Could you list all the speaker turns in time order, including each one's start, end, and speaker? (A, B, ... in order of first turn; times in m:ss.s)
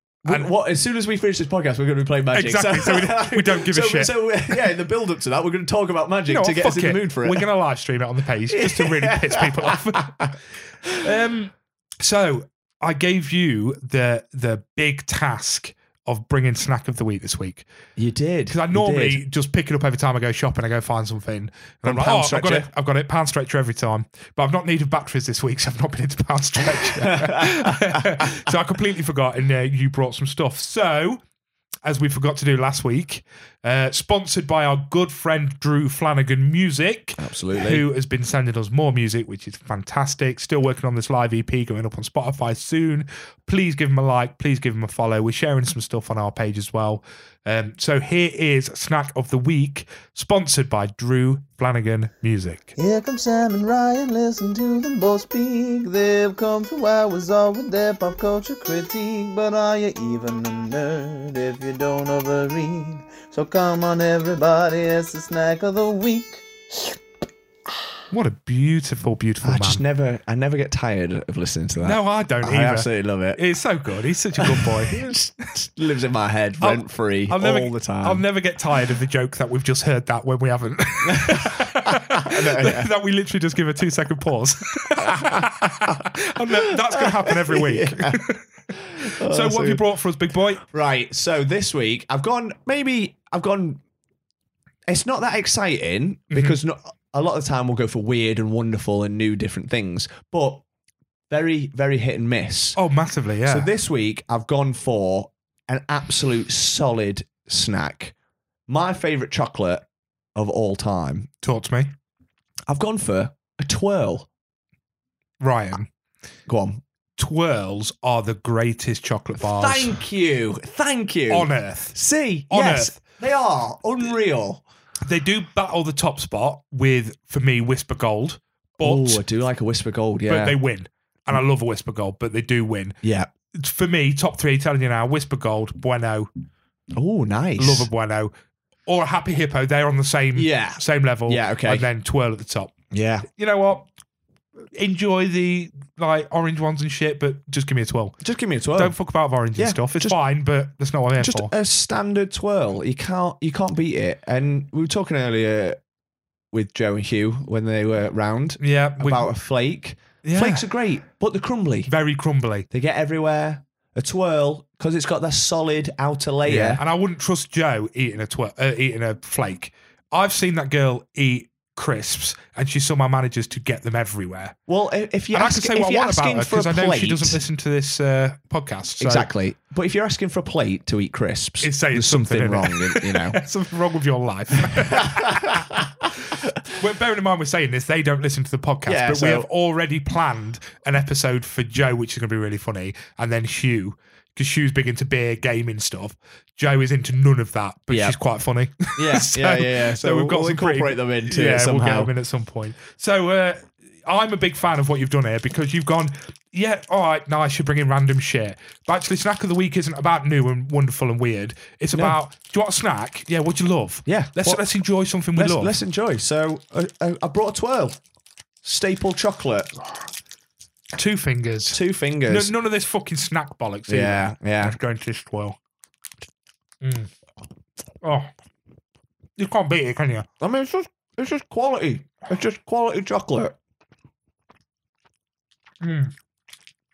0:00.2-0:07.5 A
0:02.3-0:04.1 B
0:06.3-0:10.3 B
0:08.5-0:10.2 A
0:11.0-0:17.7 B
0:18.0-0:19.2 A
0:18.5-0:31.2 B
0:21.8-0:22.7 A
0:26.8-0:28.3 A
0:31.9-0:52.7 B
0:37.2-0:37.8 A
0:52.8-1:06.8 C
1:08.1-1:09.8 B
1:09.4-1:13.4 A
1:11.8-1:15.0 B
1:14.4-1:18.2 A
1:16.6-1:30.6 B
1:21.1-1:22.9 A
1:25.0-1:28.2 A
1:28.7-1:29.8 A
1:30.6-1:33.8 A
1:34.9-1:40.6 A
1:36.3-1:36.6 B
1:41.3-1:42.8 A
1:42.8-1:43.7 B
1:43.5-1:48.1 A
1:48.7-1:51.3 A
1:51.4-1:51.9 B
1:52.7-1:54.3 A
1:55.4-1:55.9 B
1:56.5-1:56.8 A
1:57.2-2:00.0 B
1:59.4-2:04.6 A
2:01.3-2:02.0 B
2:02.5-2:03.0 B
2:05.0-2:09.2 B
2:08.8-2:10.6 A
2:10.3-2:13.0 B
2:13.0-2:13.3 A
2:13.5-2:16.3 B
2:17.0-2:17.9 A
2:17.6-2:18.3 B
2:18.9-2:22.7 B
2:20.4-2:21.9 A
2:22.9-2:23.3 A
2:23.3-2:23.9 B
2:24.8-2:28.2 B
2:28.2-2:29.0 A
2:28.8-2:31.5 B
2:29.6-2:30.2 A
2:31.2-2:35.8 A
2:36.5-2:41.9 A
2:38.6-2:39.3 B
2:40.2-2:40.7 B
2:41.9-2:42.7 B
2:42.7-2:46.8 A
2:46.5-2:54.6 B
2:54.7-2:57.4 A
2:55.3-2:59.3 B
2:59.0-3:03.4 A
3:01.6-3:05.9 B
3:04.7-3:05.8 A
3:06.7-3:35.8 B
3:08.9-3:09.5 A
3:17.9-3:18.2 A
3:19.0-3:22.1 A
3:34.1-3:34.6 A
3:35.4-3:38.0 A
3:38.6-3:39.7 A
3:41.0-3:45.6 B
3:41.7-3:42.5 A
3:43.9-3:44.8 A
3:46.8-3:47.1 B
3:48.0-3:48.3 B
3:49.4-3:50.3 B
3:50.4-3:53.6 A
3:55.8-3:56.1 B